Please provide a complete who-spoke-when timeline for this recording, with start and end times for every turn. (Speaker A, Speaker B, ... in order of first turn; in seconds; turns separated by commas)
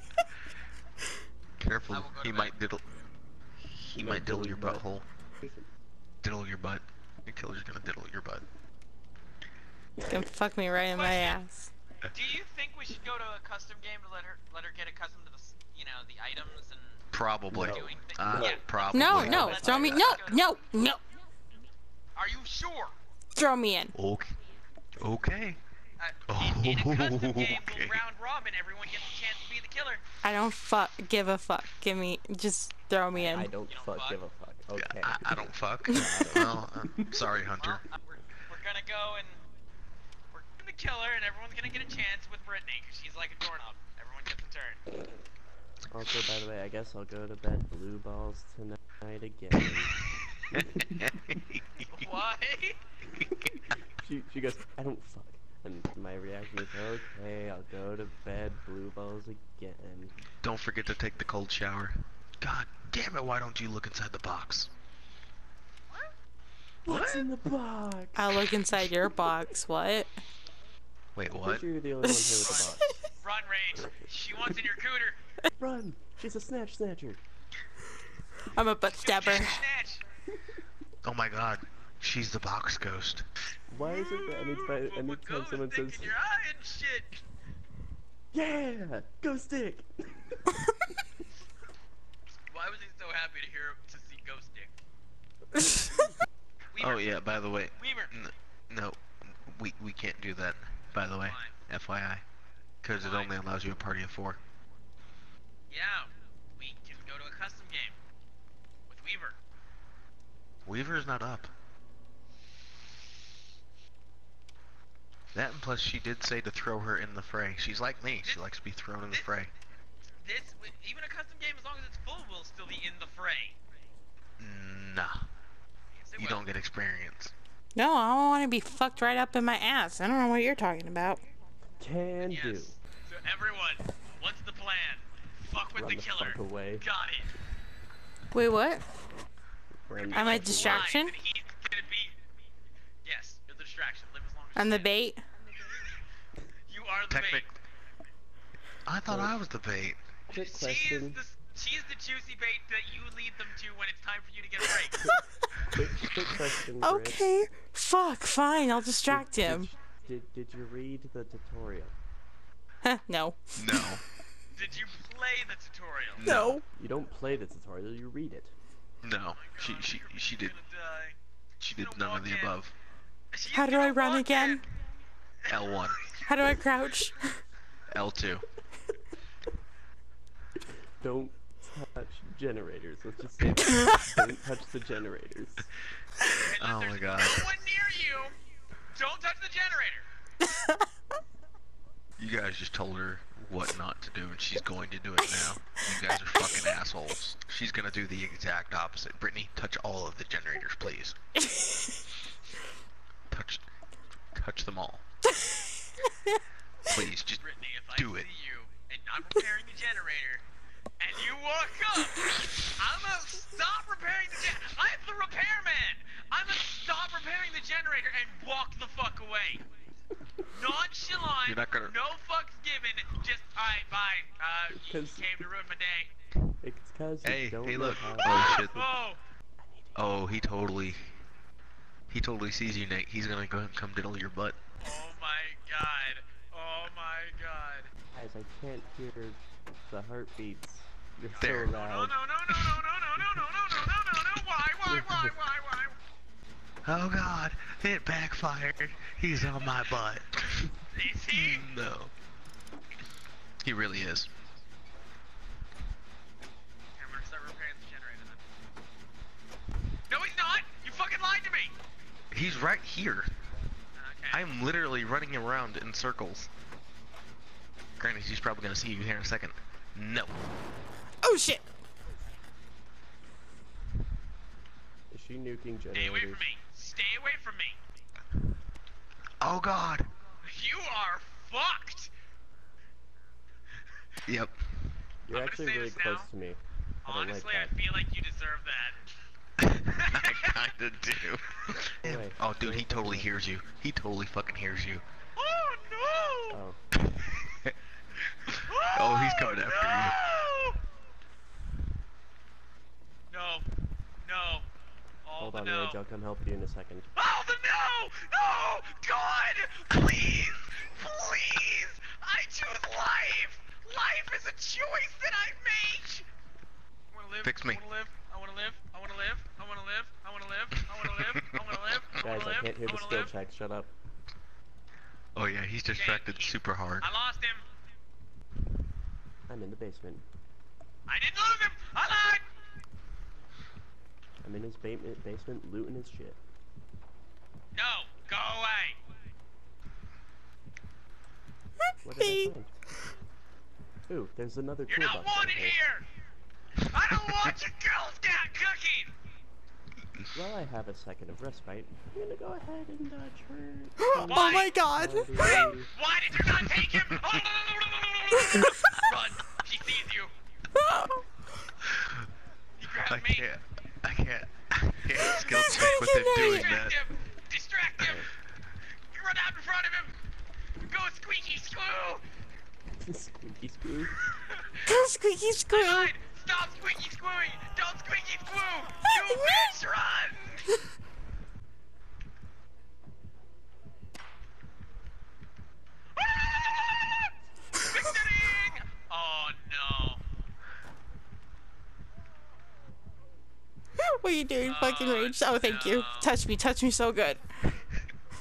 Speaker A: 1.6-2.8, Speaker B: 1.9-2.6, Speaker A: 3.8-5.1, Speaker C: 3.9-4.9, Speaker C: 5.4-5.7, Speaker A: 6.2-8.4, Speaker D: 10.1-11.7, Speaker B: 10.9-11.4, Speaker B: 12.1-17.0, Speaker A: 17.1-20.1, Speaker C: 17.5-19.7, Speaker B: 17.6-20.5, Speaker D: 18.9-21.0, Speaker B: 22.1-22.9, Speaker D: 23.4-23.9, Speaker A: 23.9-24.4, Speaker A: 25.0-25.6, Speaker B: 26.0-30.0, Speaker A: 26.3-28.0, Speaker D: 30.2-33.5, Speaker C: 33.1-37.2, Speaker B: 33.6-34.2, Speaker A: 34.7-37.8, Speaker B: 37.6-39.4, Speaker B: 40.3-44.8, Speaker C: 45.9-49.9, Speaker A: 50.5-52.0, Speaker C: 50.5-51.0, Speaker B: 51.8-52.8, Speaker C: 53.3-60.1, Speaker A: 60.4-64.7, Speaker C: 66.8-68.5, Speaker D: 66.9-67.2, Speaker D: 68.1-70.1, Speaker A: 71.1-71.6, Speaker C: 71.3-72.8, Speaker D: 72.0-73.0, Speaker B: 72.4-75.2, Speaker C: 75.6-77.2, Speaker D: 78.5-79.6, Speaker B: 78.9-80.0, Speaker A: 81.0-83.3, Speaker C: 83.7-86.2, Speaker B: 83.8-87.2, Speaker C: 88.3-90.6, Speaker B: 92.5-94.7, Speaker D: 95.5-96.1, Speaker B: 96.7-97.2, Speaker A: 96.8-102.2, Speaker B: 97.7-98.2, Speaker B: 101.2-101.6, Speaker A: 102.8-104.4, Speaker B: 102.9-103.4, Speaker B: 105.7-108.0, Speaker B: 108.9-109.4, Speaker A: 110.7-111.5, Speaker A: 115.3-119.5, Speaker B: 118.2-118.5, Speaker B: 119.1-119.4, Speaker B: 120.2-123.5, Speaker A: 124.4-125.3, Speaker B: 126.0-126.5, Speaker A: 126.2-127.3, Speaker D: 127.7-131.2, Speaker C: 131.8-132.8, Speaker B: 132.2-137.3, Speaker C: 135.7-136.9, Speaker D: 138.3-138.9, Speaker C: 139.8-140.9, Speaker B: 140.0-142.1, Speaker D: 140.1-141.1, Speaker B: 143.0-144.9, Speaker D: 144.5-145.2, Speaker B: 146.7-147.5, Speaker A: 147.1-147.6, Speaker A: 148.8-150.0, Speaker C: 149.0-149.4, Speaker B: 150.3-155.0, Speaker C: 150.3-151.2, Speaker D: 155.0-155.7, Speaker C: 155.7-157.4, Speaker D: 156.7-159.7, Speaker C: 159.1-161.9, Speaker D: 162.8-163.5, Speaker A: 163.6-164.0, Speaker B: 164.6-166.2, Speaker A: 166.2-166.6, Speaker D: 166.2-166.6, Speaker C: 166.7-168.5, Speaker A: 169.0-170.5, Speaker B: 169.3-171.2, Speaker A: 171.6-172.7, Speaker B: 171.7-172.6, Speaker B: 173.3-174.7, Speaker D: 173.5-174.6, Speaker B: 175.4-176.2, Speaker A: 175.5-176.1, Speaker D: 176.2-177.4, Speaker A: 177.9-178.4, Speaker C: 181.0-185.7, Speaker D: 183.7-184.0, Speaker B: 186.2-188.3, Speaker A: 186.6-187.5, Speaker B: 188.9-190.1, Speaker D: 190.4-190.8, Speaker A: 192.2-201.2, Speaker A: 203.3-203.6, Speaker A: 204.3-205.0, Speaker A: 206.9-207.4, Speaker B: 207.3-210.4, Speaker A: 207.9-208.3, Speaker B: 211.0-219.6, Speaker B: 220.5-226.1, Speaker A: 221.4-221.9, Speaker C: 224.7-225.4, Speaker C: 226.6-228.9, Speaker A: 227.2-228.8, Speaker B: 228.2-229.2, Speaker A: 229.9-231.1, Speaker A: 232.1-234.6, Speaker B: 234.8-237.9, Speaker C: 238.1-242.2, Speaker B: 241.2-245.9, Speaker A: 241.4-241.7, Speaker A: 242.5-242.8, Speaker C: 244.8-245.4, Speaker A: 246.8-250.7, Speaker B: 249.2-251.7, Speaker A: 251.3-252.1, Speaker A: 253.6-254.3, Speaker B: 256.9-258.4, Speaker B: 260.1-261.7, Speaker A: 262.3-263.3, Speaker B: 263.9-264.5, Speaker A: 264.3-266.5, Speaker A: 268.0-270.4, Speaker D: 271.2-271.6, Speaker C: 275.1-276.4, Speaker B: 275.9-277.8, Speaker A: 279.4-280.1, Speaker B: 280.4-282.1, Speaker A: 284.3-284.5, Speaker C: 285.2-287.8, Speaker B: 285.3-286.3, Speaker B: 287.0-289.0, Speaker A: 289.6-295.0, Speaker B: 289.9-290.6, Speaker C: 292.0-293.3, Speaker B: 295.4-296.6, Speaker C: 296.5-296.8, Speaker A: 297.1-297.7, Speaker B: 298.5-300.8, Speaker A: 298.9-300.2, Speaker B: 303.3-303.7, Speaker B: 304.2-304.7, Speaker B: 305.2-306.0, Speaker C: 305.4-307.1, Speaker B: 307.1-316.3, Speaker B: 317.1-323.3, Speaker A: 317.4-317.8, Speaker A: 321.1-322.0, Speaker C: 322.2-323.9, Speaker A: 325.3-327.1, Speaker B: 325.9-327.6, Speaker C: 329.5-330.2, Speaker B: 331.1-332.4, Speaker C: 334.4-336.4, Speaker B: 337.7-339.0, Speaker D: 341.9-342.5, Speaker C: 342.0-342.9, Speaker C: 344.1-345.8, Speaker B: 344.9-346.1, Speaker B: 346.8-349.1, Speaker C: 350.3-355.9, Speaker D: 354.0-355.7, Speaker B: 354.3-354.8, Speaker B: 355.8-360.3, Speaker D: 358.4-359.1, Speaker D: 360.7-361.2, Speaker A: 361.8-362.2, Speaker B: 362.8-363.5, Speaker A: 363.1-367.0, Speaker D: 365.3-366.8, Speaker B: 366.3-368.2, Speaker B: 369.1-370.2, Speaker B: 370.8-372.2, Speaker C: 373.0-374.2, Speaker B: 374.3-374.8, Speaker D: 374.8-376.1, Speaker B: 375.7-380.6, Speaker D: 379.1-379.8, Speaker B: 386.1-390.2, Speaker D: 394.0-397.4, Speaker B: 394.6-396.3